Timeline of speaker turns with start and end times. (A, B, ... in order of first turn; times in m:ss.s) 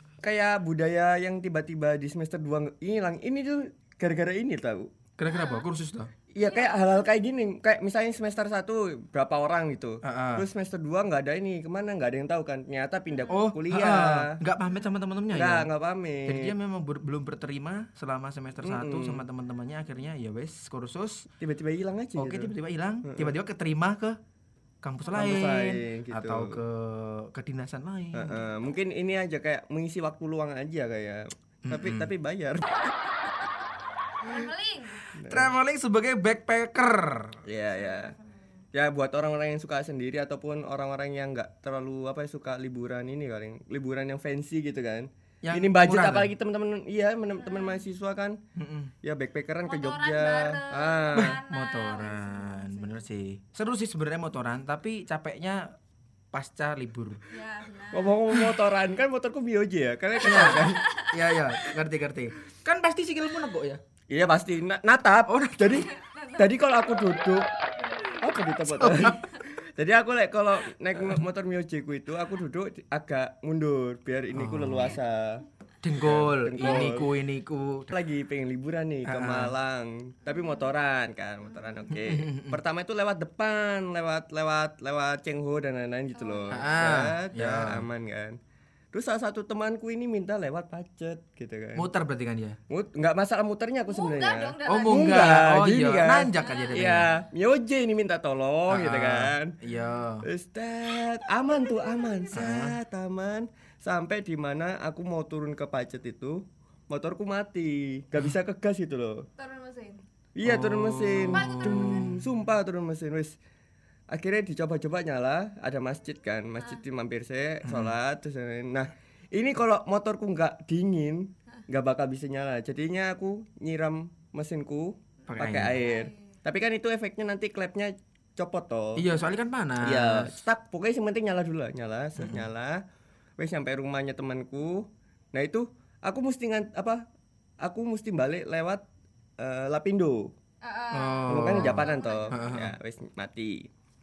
0:00.2-0:04.9 A
0:05.2-0:06.1 B
0:05.3-0:05.6 C
0:06.3-0:14.4 A
0:06.4-0:06.8 C
0:10.0-0:10.4 B
0:13.3-0:15.7 B
0:15.3-0:16.5 A
0:16.3-0:21.3 B
0:18.6-0:19.2 A
0:21.4-0:22.5 A
0:22.2-0:24.2 B
0:23.0-0:23.3 A
0:24.8-0:28.4 B
0:25.1-0:26.6 A
0:28.1-0:32.7 A
0:31.6-0:32.1 B
0:34.2-0:35.1 C
0:35.2-0:35.5 A
0:35.3-0:37.4 B
0:37.4-0:38.1 A
0:37.7-0:38.3 C
0:38.7-0:48.4 A
0:45.4-0:46.3 B
0:47.4-0:47.8 C
0:48.6-0:48.9 B
0:49.0-0:51.4 A
0:49.6-0:53.0 C
0:51.2-0:55.7 B
0:56.3-0:57.2 B
0:57.3-0:58.2 C
0:57.9-1:00.8 A
1:00.2-1:01.2 C
1:00.2-1:03.8 B
1:04.1-1:07.5 A
1:05.3-1:05.8 B
1:05.7-1:06.6 C
1:07.8-1:08.2 C
1:08.1-1:15.4 A
1:08.7-1:09.2 B
1:14.3-1:15.0 B
1:15.8-1:17.9 B
1:16.0-1:17.1 A
1:17.9-1:28.4 A
1:19.0-1:19.5 B
1:22.0-1:22.6 B
1:26.1-1:26.9 C
1:26.5-1:27.8 B
1:28.9-1:31.9 A
1:31.8-1:32.6 B
1:32.7-1:39.5 A
1:33.9-1:35.2 C
1:34.6-1:37.1 B
1:36.4-1:36.9 C
1:38.7-1:40.2 B
1:40.2-1:49.3 A
1:41.0-1:42.3 C
1:42.3-1:42.7 B
1:49.4-1:50.0 C
1:50.3-1:53.4 A
1:50.4-1:52.3 B
1:51.3-1:52.1 C
1:54.1-2:09.0 A
1:57.6-1:58.0 B
2:05.3-2:05.8 B
2:05.8-2:06.2 C
2:09.0-2:10.3 B
2:09.8-2:12.8 A
2:12.2-2:12.4 B
2:13.4-2:17.0 A
2:17.6-2:18.8 A
2:19.4-2:20.3 A
2:20.6-2:22.4 C
2:20.9-2:22.7 B
2:21.3-2:23.7 A